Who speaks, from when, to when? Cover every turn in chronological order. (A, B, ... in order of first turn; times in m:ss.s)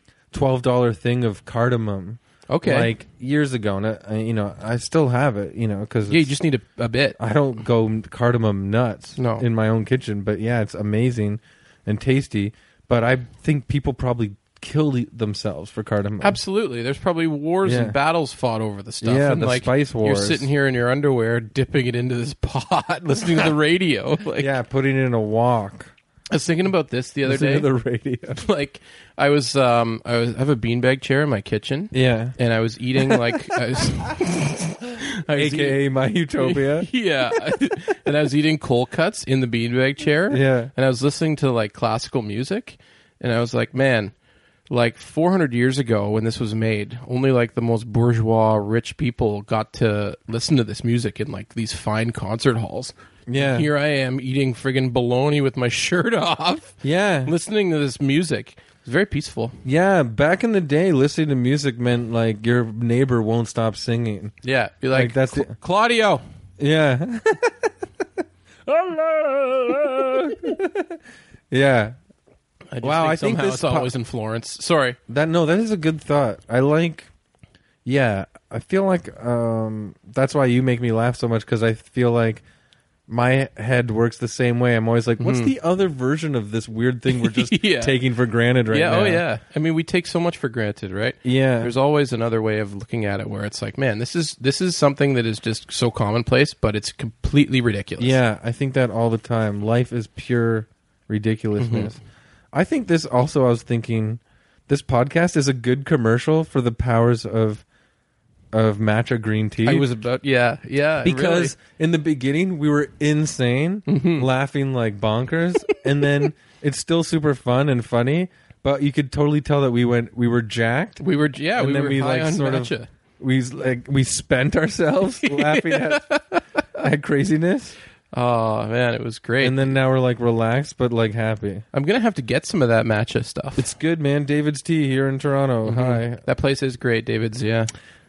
0:00.3-0:06.3 A
0:02.5-0:02.9 B
0:06.1-0:07.2 B
0:07.2-0:16.4 A
0:09.2-0:09.4 B
0:16.2-0:24.5 B
0:17.6-0:18.0 A
0:19.0-0:20.5 A
0:24.4-0:25.9 A
0:26.3-0:27.7 B
0:27.2-0:28.4 A
0:28.4-0:35.8 B
0:31.9-0:32.3 A
0:33.0-0:33.5 A
0:35.3-0:36.9 A
0:36.4-0:44.1 B
0:40.3-0:40.7 A
0:44.7-0:59.6 B
0:53.3-0:53.7 A
0:56.8-0:57.3 A
0:59.6-1:04.3 A
1:04.4-1:06.2 B
1:04.9-1:05.5 A
1:06.6-1:07.7 A
1:08.7-1:11.0 A
1:11.5-1:11.9 A
1:12.7-1:15.0 B
1:12.8-1:13.9 A
1:15.1-1:17.1 A
1:17.8-1:22.4 A
1:23.1-1:29.2 A
1:25.2-1:25.5 B
1:27.1-1:27.9 B
1:28.7-1:38.2 B
1:31.2-1:31.7 A
1:38.0-1:42.0 A
1:41.6-1:41.9 B
1:42.5-1:47.6 A
1:48.5-1:49.9 A
1:49.6-1:51.5 B
1:51.0-2:01.0 A
1:53.9-1:54.3 B
2:01.0-2:02.9 B
2:01.6-2:06.1 A
2:05.2-2:06.4 B
2:06.8-2:07.8 A
2:08.1-2:09.7 B
2:09.4-2:11.6 A
2:11.7-2:13.7 B
2:13.6-2:16.2 A
2:15.6-2:17.7 B